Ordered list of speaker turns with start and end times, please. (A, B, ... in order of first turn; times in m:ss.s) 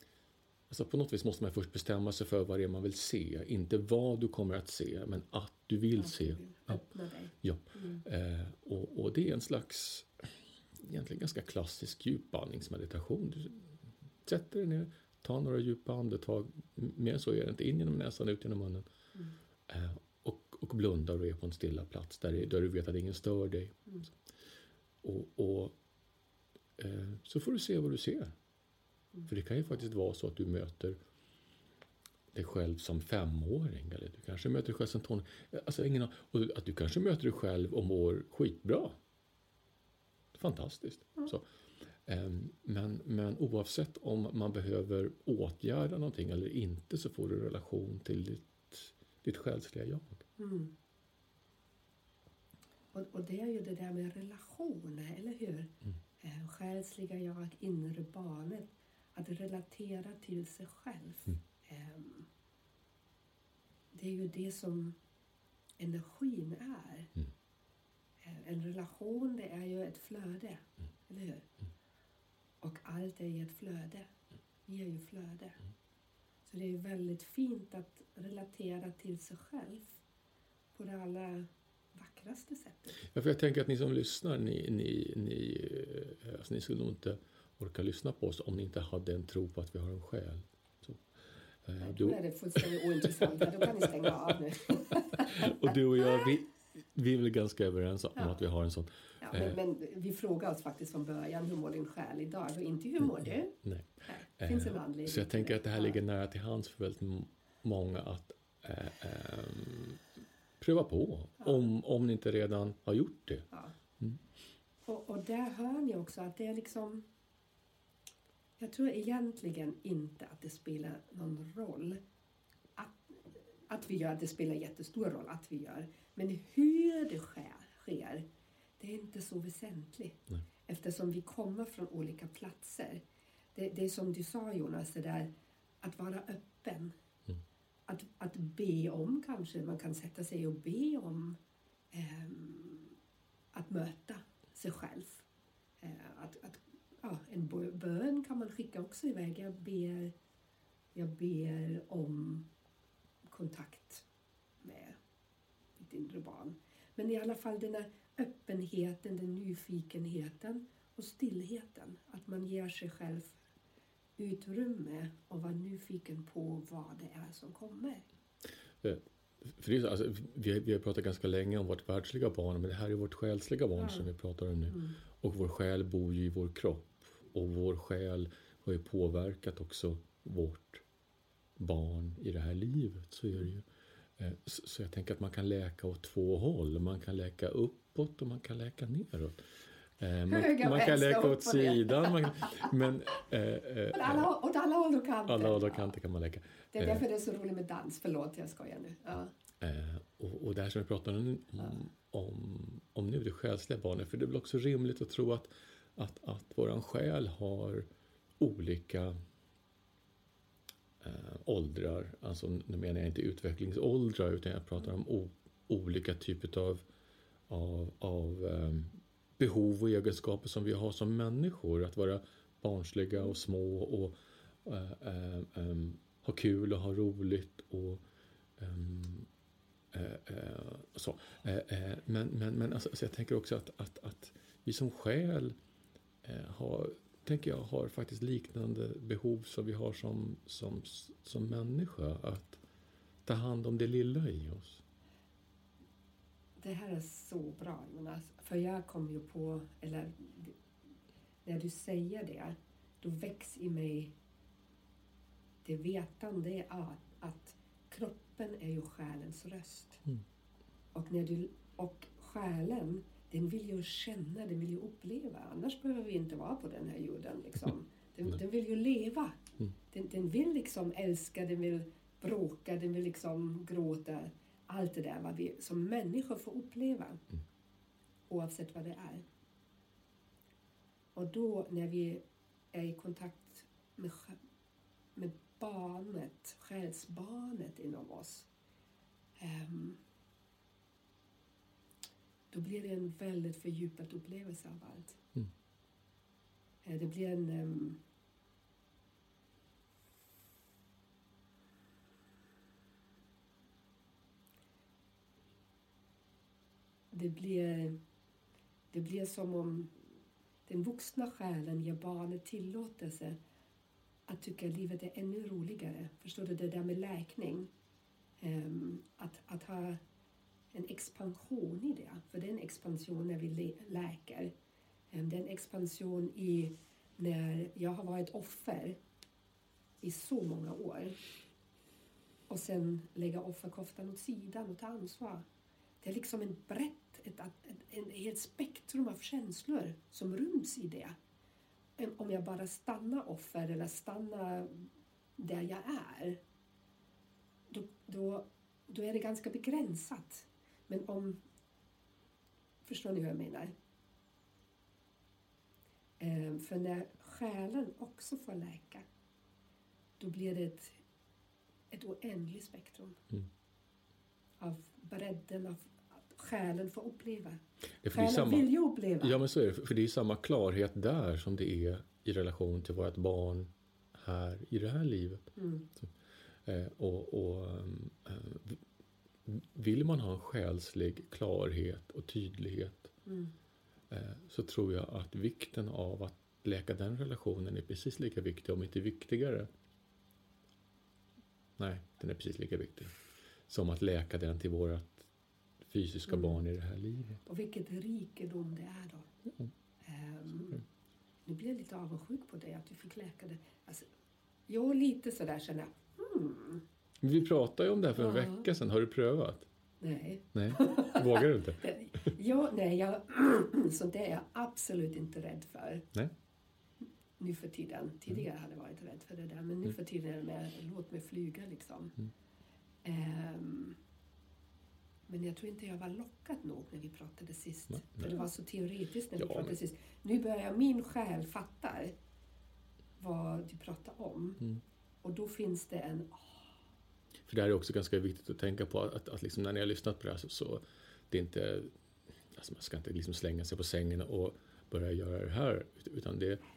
0:00.7-0:06.8 A
0:06.0-0:08.0 B
0:07.4-0:13.7 A
0:14.2-0:18.9 A
0:19.7-0:24.0 A
0:25.0-0:25.8 A
0:26.8-0:28.4 A
0:29.3-0:31.0 A
0:32.3-0:39.0 A
0:40.3-0:41.4 A
0:42.1-0:50.2 A
0:50.4-0:50.7 B
0:52.9-1:02.3 B
1:03.9-1:05.0 B
1:05.8-1:07.1 B
1:08.2-1:11.5 B
1:12.6-1:14.1 B
1:14.7-1:15.6 B
1:16.5-1:20.0 B
1:20.7-1:23.0 B
1:23.0-1:31.1 A
1:31.6-1:33.9 A
1:31.8-1:35.7 B
1:35.1-1:39.6 A
1:38.2-1:38.4 B
1:39.2-1:46.0 B
1:43.2-1:50.0 A
1:50.6-1:54.2 A
1:54.9-1:57.1 B
1:58.6-2:02.0 B
2:02.8-2:08.2 B
2:08.8-2:13.0 B
2:13.6-2:15.3 B
2:15.8-2:17.0 B
2:17.9-2:21.4 B
2:21.9-2:23.0 B
2:23.5-2:25.3 B
2:25.8-2:30.1 B
2:31.0-2:32.5 B
2:33.3-2:34.1 B
2:34.6-2:35.0 B
2:35.8-2:43.4 B
2:44.2-2:48.1 B
2:48.8-3:00.8 A
2:53.8-2:54.1 B
2:54.7-2:55.0 B
3:01.6-3:03.7 A
3:04.2-3:14.3 A
3:10.3-3:12.7 B
3:13.9-3:15.9 B
3:15.3-3:17.0 A
3:16.7-3:19.3 B
3:19.6-3:27.9 A
3:28.4-3:29.2 A
3:31.0-3:36.8 A
3:37.5-3:48.0 A
3:48.6-3:49.3 A
3:49.9-3:55.6 A
3:56.2-4:02.6 A
4:03.2-4:04.8 A
4:06.6-4:10.6 B
4:11.4-4:14.1 B
4:15.6-4:20.0 B
4:20.9-4:37.2 B
4:38.3-4:39.2 B
4:41.2-4:44.4 B
4:45.2-4:48.5 B
4:49.4-4:50.0 B
4:52.5-4:55.2 B
4:56.8-4:58.0 B
5:07.1-5:08.0 B
5:08.9-5:09.9 B
5:10.7-5:13.4 B
5:14.3-5:17.7 B
5:18.4-5:20.0 B
5:20.7-5:24.5 B
5:25.1-5:29.0 B
5:30.0-5:31.2 B
5:32.5-5:35.4 B
5:36.0-5:41.2 B
5:42.0-5:46.4 B
5:47.7-5:51.4 B
5:52.8-5:53.7 B
5:56.2-5:59.0 B
6:00.2-6:01.0 B
6:01.9-6:03.2 B
6:04.6-6:09.4 B
6:08.0-6:16.1 A
6:15.6-6:15.9 B
6:16.7-6:18.8 A
6:19.4-6:23.1 A
6:23.3-6:23.5 B
6:24.1-6:29.7 A
6:31.8-6:33.2 A
6:33.7-6:35.3 A
6:35.8-6:37.4 A
6:36.3-6:36.6 B
6:37.4-6:39.3 B
6:40.0-6:40.8 B
6:41.5-6:44.1 B
6:44.7-6:46.8 B
6:47.2-6:49.7 A
6:48.2-6:48.6 B
6:50.0-6:56.1 B
6:50.6-6:51.9 A
6:57.4-7:02.1 B
7:03.0-7:04.0 B
7:05.3-7:12.2 B
7:09.4-7:09.8 A
7:13.2-7:14.6 B
7:15.2-7:16.7 B
7:17.4-7:22.0 A
7:22.5-7:26.6 A